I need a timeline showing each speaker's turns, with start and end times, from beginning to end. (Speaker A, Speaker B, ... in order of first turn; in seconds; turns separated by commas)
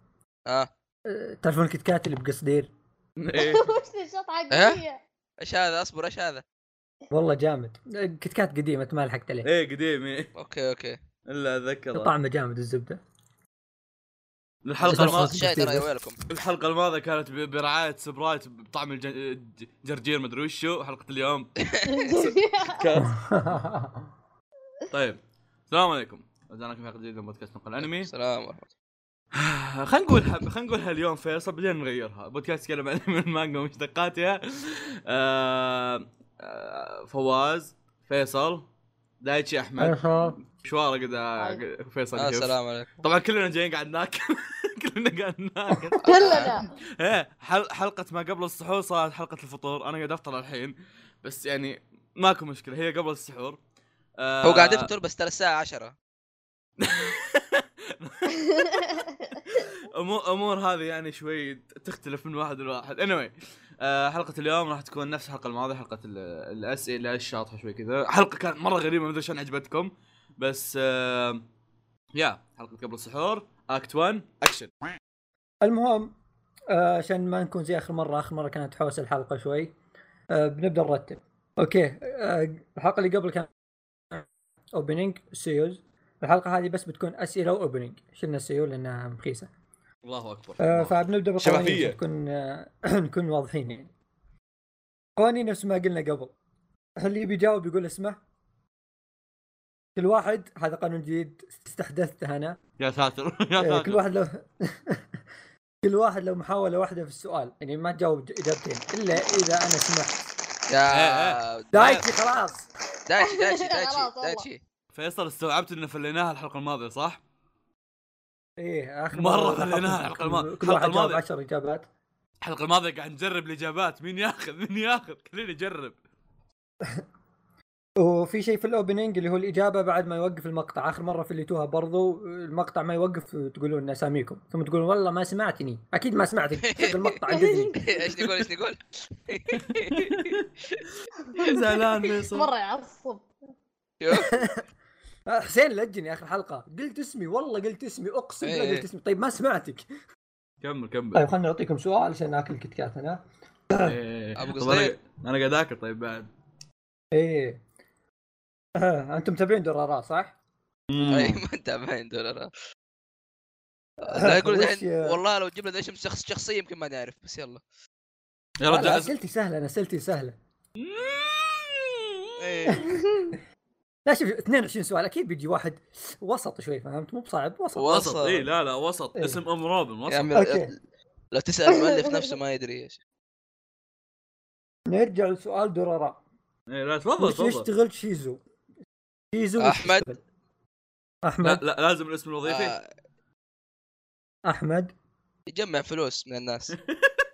Speaker A: 1.1-2.7, Speaker B: 3.2-3.7, Speaker C: 3.4-5.0, Speaker D: 4.5-4.8, Speaker D: 5.4-6.4, Speaker A: 7.1-9.5, Speaker B: 9.4-10.3, Speaker D: 10.4-11.0, Speaker B: 11.3-12.1, Speaker A: 11.9-13.0, Speaker B: 14.7-15.4, Speaker D: 14.8-16.2, Speaker A: 14.9-15.9, Speaker B: 16.3-21.5, Speaker C: 21.9-22.8, Speaker B: 22.1-23.1, Speaker A: 22.9-24.0, Speaker B: 24.9-28.1, Speaker D: 27.8-28.7, Speaker B: 29.3-38.6, Speaker B: 39.2-46.4, Speaker A: 39.8-40.4, Speaker C: 41.4-41.6, Speaker D: 42.2-42.9, Speaker A: 45.7-46.0, Speaker D: 46.0-46.5, Speaker C: 46.1-46.7, Speaker B: 47.0-53.6, Speaker B: 54.2-54.9, Speaker D: 54.4-56.0, Speaker B: 56.8-58.4, Speaker C: 59.0-59.4, Speaker B: 59.6-71.4, Speaker B: 72.2-74.7, Speaker A: 75.6-76.1, Speaker A: 76.7-79.7, Speaker A: 80.3-83.5, Speaker A: 84.1-89.5, Speaker B: 90.0-92.0, Speaker A: 90.6-93.9, Speaker A: 95.2-96.3, Speaker A: 97.0-98.2, Speaker A: 100.0-102.6, Speaker B: 102.8-104.0, Speaker A: 103.6-105.0, Speaker A: 105.8-110.3, Speaker D: 110.7-111.7, Speaker B: 110.9-112.0, Speaker A: 111.7-112.7, Speaker D: 113.1-114.6, Speaker C: 113.2-114.5, Speaker B: 114.9-117.2, Speaker A: 118.6-121.9, Speaker B: 119.1-121.2, Speaker B: 122.4-126.0, Speaker A: 128.0-137.8, Speaker D: 136.6-137.1, Speaker C: 137.3-137.8, Speaker D: 137.8-140.8, Speaker B: 139.5-140.4, Speaker C: 141.3-143.3, Speaker B: 141.4-142.5, Speaker D: 144.0-144.3, Speaker A: 144.1-144.7, Speaker A: 145.3-149.8, Speaker D: 148.4-148.9, Speaker B: 150.6-151.2, Speaker A: 151.1-154.0, Speaker B: 153.8-156.3, Speaker D: 154.4-154.9, Speaker A: 157.1-157.6, Speaker A: 158.8-160.3, Speaker B: 160.9-161.4, Speaker D: 161.1-162.5, Speaker A: 164.0-165.2, Speaker D: 164.0-167.6, Speaker B: 168.6-169.1, Speaker A: 168.7-170.4, Speaker B: 170.8-172.7, Speaker D: 172.4-172.8, Speaker C: 172.8-173.3, Speaker A: 174.1-178.0, Speaker D: 177.8-178.4, Speaker B: 177.9-180.3, Speaker D: 180.1-180.7, Speaker A: 180.3-180.7, Speaker D: 181.3-183.0, Speaker A: 184.9-186.2, Speaker B: 186.7-187.7, Speaker A: 187.2-188.4, Speaker A: 189.3-190.2, Speaker D: 189.6-190.1, Speaker A: 191.2-191.6, Speaker B: 191.4-192.8, Speaker D: 192.5-192.9, Speaker A: 194.5-194.9, Speaker D: 195.5-196.8